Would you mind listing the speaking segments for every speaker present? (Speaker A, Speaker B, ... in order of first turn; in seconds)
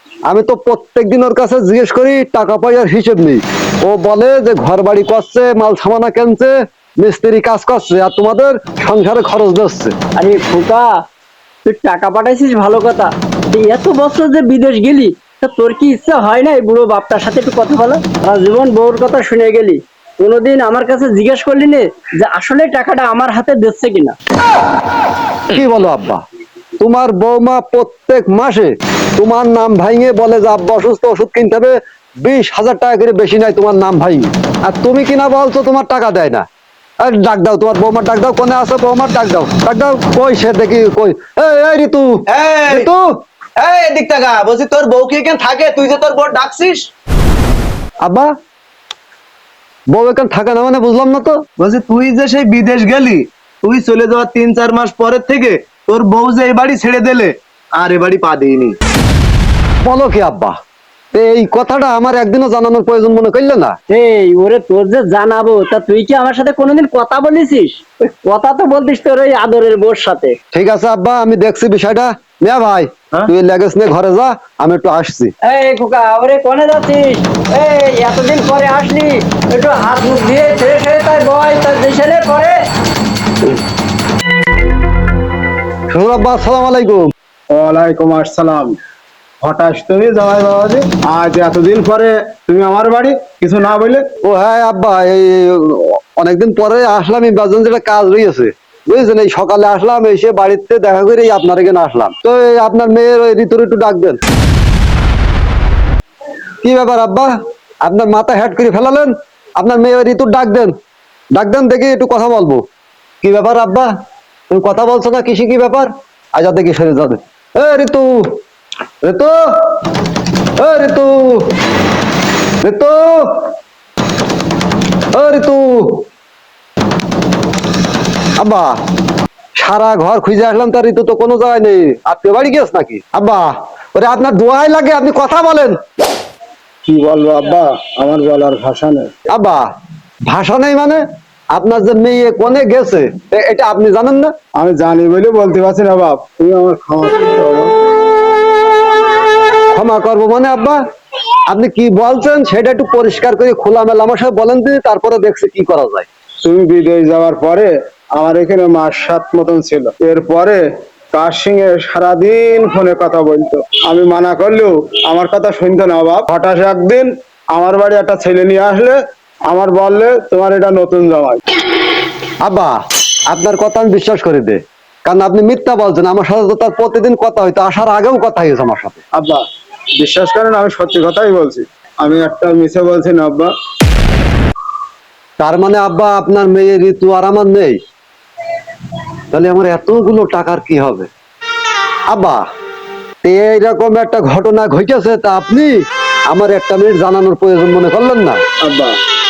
Speaker A: 0.3-9.9, 25.5-26.2, 26.8-36.5, 37.0-43.1, 48.0-48.3, 49.9-51.4, 59.8-60.6, 61.1-63.8, 70.5-75.3, 85.9-87.1, 94.2-104.2, 106.6-107.3, 107.8-110.8, 111.3-112.7, 113.2-113.9, 114.5-118.4, 119.0-119.8, 120.6-121.5, 122.6-123.5, 125.1-126.1, 128.4-128.8, 129.6-135.8, 139.3-139.7, 140.3-141.0, 141.5-144.3, 149.7-150.8, 151.5-156.1, 172.4-179.0, 185.4-187.8, 189.3-191.1, 192.1-192.4, 193.2-195.8, 196.3-198.4
Speaker B: 10.2-11.0, 11.7-24.2, 63.9-70.3, 75.4-82.6
Speaker C: 42.3-42.9, 43.6-46.9, 51.6-58.8
Speaker D: 87.5-88.8, 89.4-94.1, 136.9-139.1, 144.6-147.7, 156.4-171.4, 179.1-179.4, 180.0-183.5, 198.6-199.0